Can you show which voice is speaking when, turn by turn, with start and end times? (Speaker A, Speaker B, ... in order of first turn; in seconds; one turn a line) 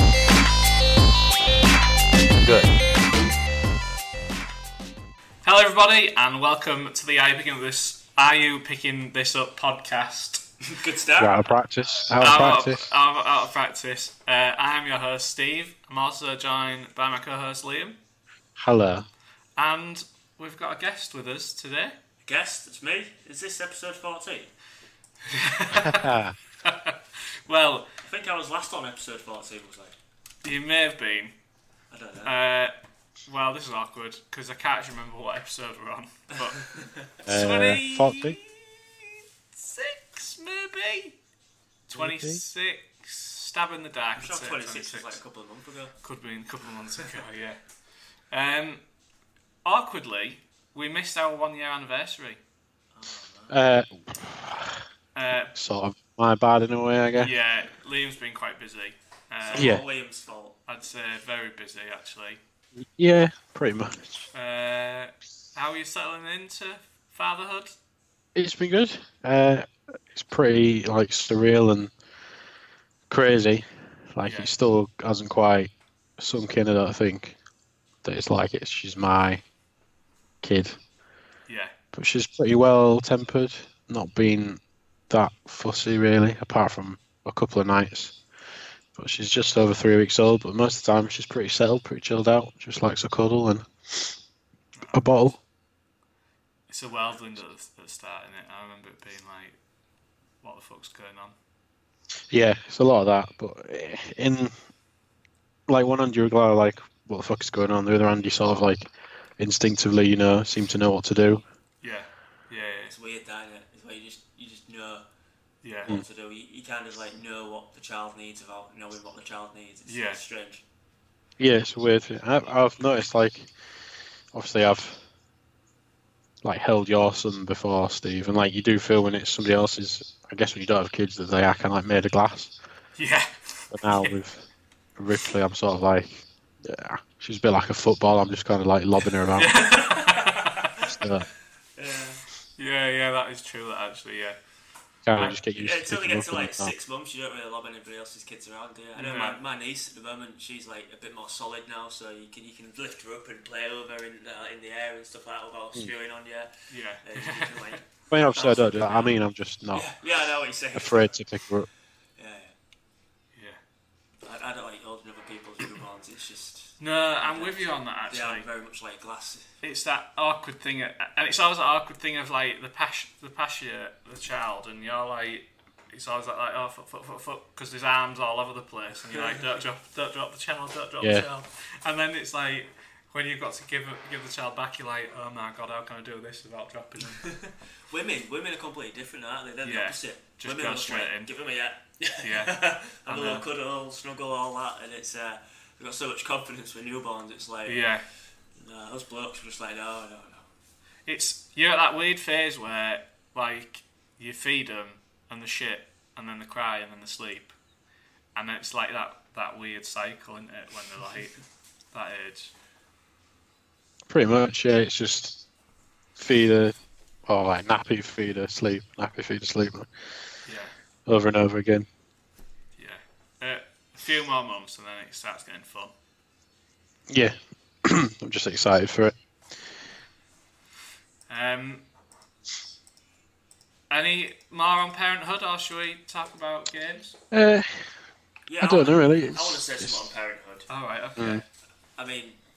Speaker A: 5.4-10.5
Speaker B: 10.6-11.5
Speaker C: 11.2-12.9
Speaker A: 11.9-18.0
Speaker C: 18.6-19.1
Speaker A: 19.6-22.0
Speaker B: 22.2-24.5
Speaker A: 25.3-27.9
Speaker C: 25.7-26.4
Speaker B: 28.0-29.9
Speaker A: 30.4-31.4
Speaker B: 31.9-32.4
Speaker A: 32.2-32.7
Speaker A: 33.3-41.2
Speaker B: 36.6-37.1
Speaker C: 37.3-38.4
Speaker A: 41.9-45.2
Speaker C: 41.9-42.4
Speaker B: 44.2-46.0
Speaker A: 46.0-47.6
Speaker A: 48.3-48.8
Speaker A: 49.6-52.4
Speaker B: 53.0-53.6
Speaker C: 53.5-54.8
Speaker A: 55.1-55.5
Speaker C: 55.5-57.3
Speaker A: 57.2-59.8
Speaker B: 59.4-60.6
Speaker C: 59.5-59.8
Speaker A: 60.7-62.4
Speaker C: 62.8-64.3
Speaker A: 64.3-67.7
Speaker C: 68.3-71.9
Speaker C: 73.1-77.4
Speaker A: 74.2-74.5
Speaker C: 78.0-79.4
Speaker C: 80.4-80.8
Speaker A: 81.5-81.7
Speaker C: 81.9-88.2
Speaker C: 89.0-94.2
Speaker A: 94.8-95.3
Speaker C: 94.9-95.4
Speaker A: 96.7-99.6
Speaker A: 100.4-101.3
Speaker C: 102.3-104.5
Speaker C: 105.7-108.9
Speaker C: 109.4-111.4
Speaker A: 111.8-112.9
Speaker B: 112.9-115.1
Speaker A: 115.6-115.9
Speaker B: 115.8-120.6
Speaker A: 119.9-120.2
Speaker C: 121.4-123.5
Speaker C: 124.3-125.0
Speaker C: 126.4-132.6
Speaker A: 133.0-134.2
Speaker C: 133.7-134.5
Speaker C: 135.0-139.5
Speaker A: 139.3-140.8
Speaker B: 139.7-140.7
Speaker C: 140.9-141.3
Speaker B: 141.8-142.2
Speaker A: 142.6-144.4
Speaker C: 145.1-146.7
Speaker B: 145.2-156.5
Speaker A: 149.0-149.4
Speaker A: 156.7-157.8
Speaker B: 157.0-159.2
Speaker C: 158.1-159.9
Speaker B: 159.7-161.2
Speaker C: 160.7-161.7
Speaker B: 162.2-162.5
Speaker A: 163.3-163.6
Speaker B: 164.2-169.5
Speaker A: 166.8-168.4
Speaker A: 169.6-187.4
Speaker B: 179.1-179.6
Speaker C: 181.0-181.3
Speaker B: 187.2-197.9
Speaker A: 189.6-191.3
Speaker A: 192.2-193.5
Speaker A: 197.7-198.1
Speaker B: 198.6-200.5
Speaker A: 201.1-207.5
Speaker A: 208.4-211.4
Speaker A: 211.9-212.5
Speaker C: 214.1-215.4
Speaker C: 216.2-216.8
Speaker C: 217.3-219.9
Speaker A: 220.5-220.7
Speaker C: 221.1-221.9
Speaker A: 222.8-225.9
Speaker C: 227.1-229.7
Speaker A: 231.3-231.8
Speaker A: 233.9-237.2
Speaker C: 237.3-237.9
Speaker B: 238.5-240.7
Speaker C: 238.6-240.0
Speaker A: 240.7-241.4
Speaker C: 241.2-241.4
Speaker B: 242.0-242.4